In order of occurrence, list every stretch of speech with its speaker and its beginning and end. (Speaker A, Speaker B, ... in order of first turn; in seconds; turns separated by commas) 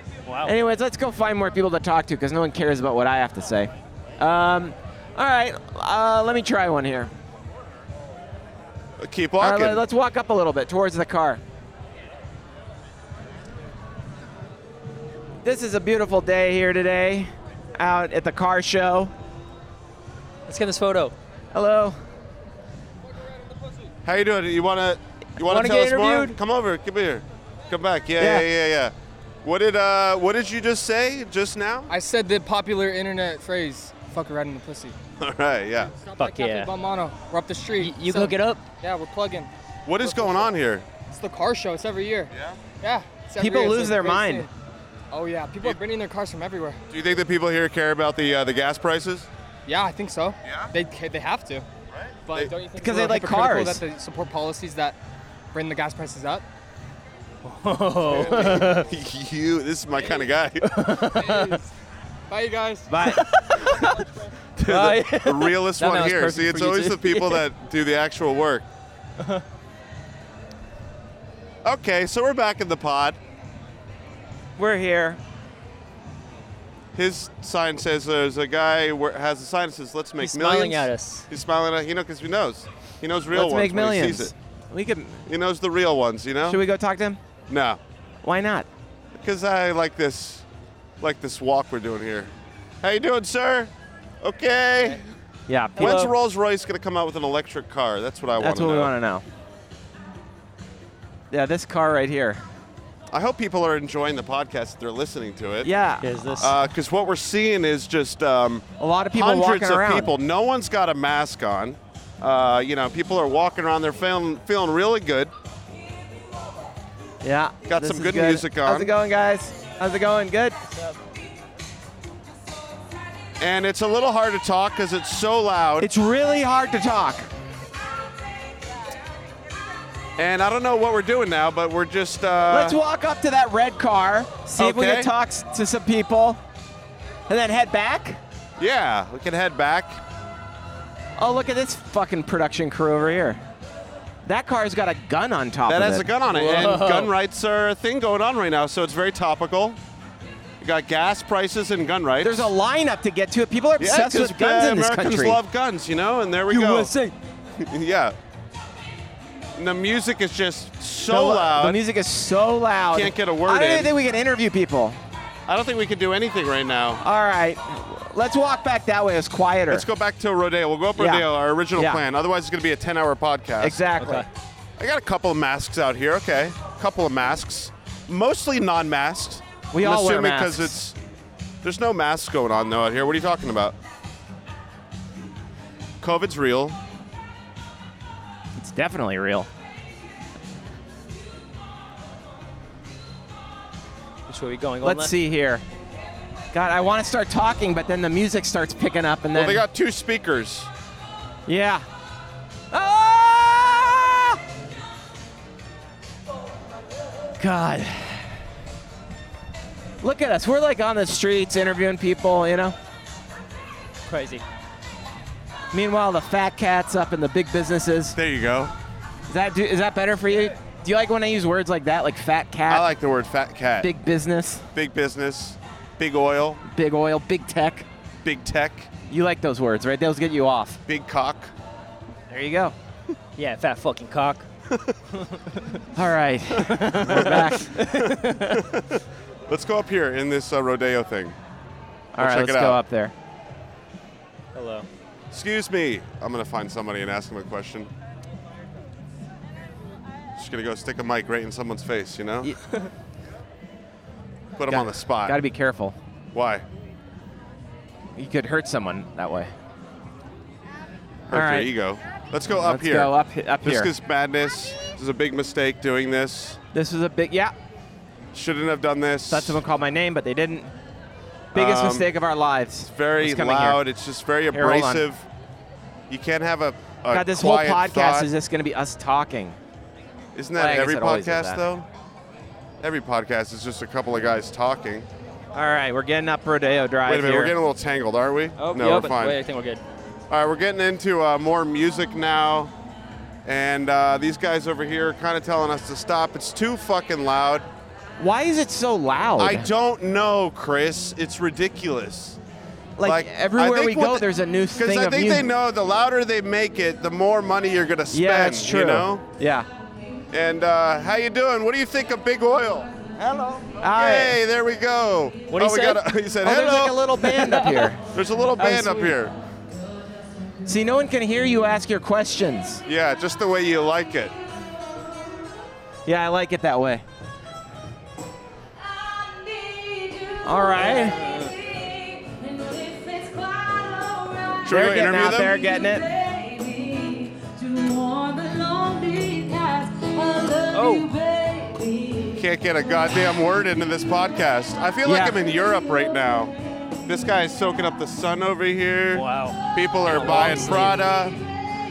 Speaker A: 0.2-0.5, Speaker B: 0.4-7.1, Speaker C: 9.0-9.8, Speaker B: 9.4-11.4, Speaker B: 15.4-19.1, Speaker A: 20.5-21.1, Speaker B: 21.5-22.0, Speaker C: 24.0-31.9, Speaker A: 25.4-26.4, Speaker B: 28.2-28.5, Speaker D: 31.9-34.9, Speaker C: 35.2-36.0, Speaker D: 35.9-39.5, Speaker A: 36.2-36.7, Speaker A: 37.7-38.6, Speaker C: 39.8-40.9, Speaker D: 40.0-40.5, Speaker D: 41.1-44.5, Speaker C: 42.3-42.6, Speaker B: 43.4-44.5, Speaker D: 45.1-46.8, Speaker C: 46.9-49.3, Speaker D: 49.6-51.6, Speaker C: 50.4-50.7, Speaker C: 51.9-52.5, Speaker D: 52.3-55.0, Speaker B: 52.8-53.8, Speaker D: 55.5-56.4, Speaker A: 57.4-58.9, Speaker C: 58.1-61.0, Speaker D: 58.1-58.6, Speaker A: 60.6-61.6, Speaker D: 61.0-61.7, Speaker D: 62.3-62.9, Speaker B: 62.9-63.2, Speaker A: 63.0-64.0, Speaker C: 64.6-68.6, Speaker A: 64.7-67.4, Speaker C: 71.6-73.2, Speaker B: 74.6-75.2, Speaker C: 76.9-84.3, Speaker A: 80.2-81.3, Speaker B: 83.3-85.2, Speaker C: 85.2-86.6, Speaker B: 86.4-87.2, Speaker C: 87.5-87.8, Speaker B: 88.2-88.7, Speaker C: 89.1-90.5, Speaker C: 91.0-95.0, Speaker B: 95.5-96.1, Speaker A: 95.8-96.1, Speaker C: 95.8-98.9, Speaker B: 98.4-99.2, Speaker B: 101.3-102.4, Speaker C: 103.1-105.7, Speaker B: 105.6-106.5, Speaker A: 106.0-106.5, Speaker C: 106.3-115.3, Speaker B: 108.8-110.1, Speaker B: 117.2-120.6, Speaker C: 117.7-118.9, Speaker C: 123.4-125.9, Speaker B: 125.8-127.3, Speaker C: 130.2-132.8, Speaker B: 132.5-136.4, Speaker C: 134.6-135.1, Speaker B: 137.3-138.2, Speaker C: 138.6-140.0, Speaker B: 141.2-143.4, Speaker B: 144.2-146.1, Speaker C: 145.7-149.8, Speaker A: 146.3-147.1, Speaker C: 150.6-152.5, Speaker B: 152.2-155.4, Speaker C: 153.8-156.9, Speaker A: 156.5-157.1, Speaker C: 157.6-158.2, Speaker C: 159.5-161.8, Speaker B: 161.0-165.0, Speaker C: 162.9-163.9, Speaker C: 165.5-167.0, Speaker B: 167.0-169.8, Speaker C: 169.7-173.8, Speaker B: 170.9-172.0, Speaker B: 173.6-174.3, Speaker A: 174.0-174.3, Speaker C: 174.8-180.9, Speaker B: 179.7-180.8, Speaker C: 181.6-183.8, Speaker C: 186.0-186.8, Speaker B: 188.5-189.5, Speaker A: 194.3-195.1, Speaker B: 194.8-195.6, Speaker B: 196.5-199.6, Speaker C: 199.3-200.7, Speaker B: 201.4-201.8, Speaker B: 202.7-204.4, Speaker B: 207.4-208.4, Speaker B: 210.0-212.8, Speaker A: 214.1-214.4, Speaker B: 215.7-218.2, Speaker C: 218.1-218.7, Speaker B: 219.3-222.9, Speaker C: 222.7-223.9, Speaker B: 223.8-224.7, Speaker C: 224.7-226.6, Speaker B: 226.6-227.9, Speaker C: 228.2-228.9, Speaker B: 229.1-230.8, Speaker C: 230.8-231.5, Speaker B: 232.3-232.8, Speaker A: 233.3-234.5, Speaker C: 234.7-235.0, Speaker A: 235.3-235.8, Speaker B: 235.9-237.8, Speaker A: 236.9-238.6, Speaker C: 237.0-241.4, Speaker B: 242.1-243.1, Speaker C: 242.2-242.8, Speaker A: 244.5-244.9, Speaker C: 245.3-247.9, Speaker C: 250.3-252.5, Speaker C: 254.6-255.4, Speaker B: 254.7-255.9, Speaker C: 256.3-256.6, Speaker B: 258.1-259.5, Speaker C: 261.3-263.1, Speaker B: 261.3-261.7, Speaker B: 262.5-263.9, Speaker C: 263.6-266.6, Speaker B: 266.7-267.5, Speaker C: 268.3-269.6, Speaker B: 269.3-270.7, Speaker B: 271.5-273.8, Speaker C: 271.5-272.1, Speaker C: 272.9-275.3, Speaker B: 274.5-275.1, Speaker C: 276.1-278.3, Speaker B: 277.1-279.6, Speaker C: 280.3-281.9, Speaker B: 280.5-281.6, Speaker C: 282.8-285.1, Speaker B: 285.5-287.6, Speaker C: 287.1-289.4, Speaker A: 288.6-289.8, Speaker C: 290.3-292.7, Speaker C: 293.4-297.7, Speaker B: 298.2-299.7, Speaker C: 299.4-302.4, Speaker B: 303.0-305.5, Speaker C: 303.0-309.2, Speaker B: 308.1-309.7, Speaker C: 310.3-317.0, Speaker B: 313.7-314.4, Speaker A: 315.5-316.0, Speaker B: 316.4-318.0, Speaker A: 317.2-317.9, Speaker C: 318.1-319.3, Speaker A: 318.6-319.1, Speaker B: 320.6-322.8, Speaker C: 322.9-324.3, Speaker B: 326.1-327.0, Speaker B: 330.4-331.3, Speaker A: 330.8-331.5, Speaker B: 334.6-336.1, Speaker C: 334.6-335.6, Speaker A: 340.7-341.1, Speaker C: 342.3-346.5, Speaker B: 345.0-345.4, Speaker C: 347.0-351.4, Speaker A: 349.1-351.0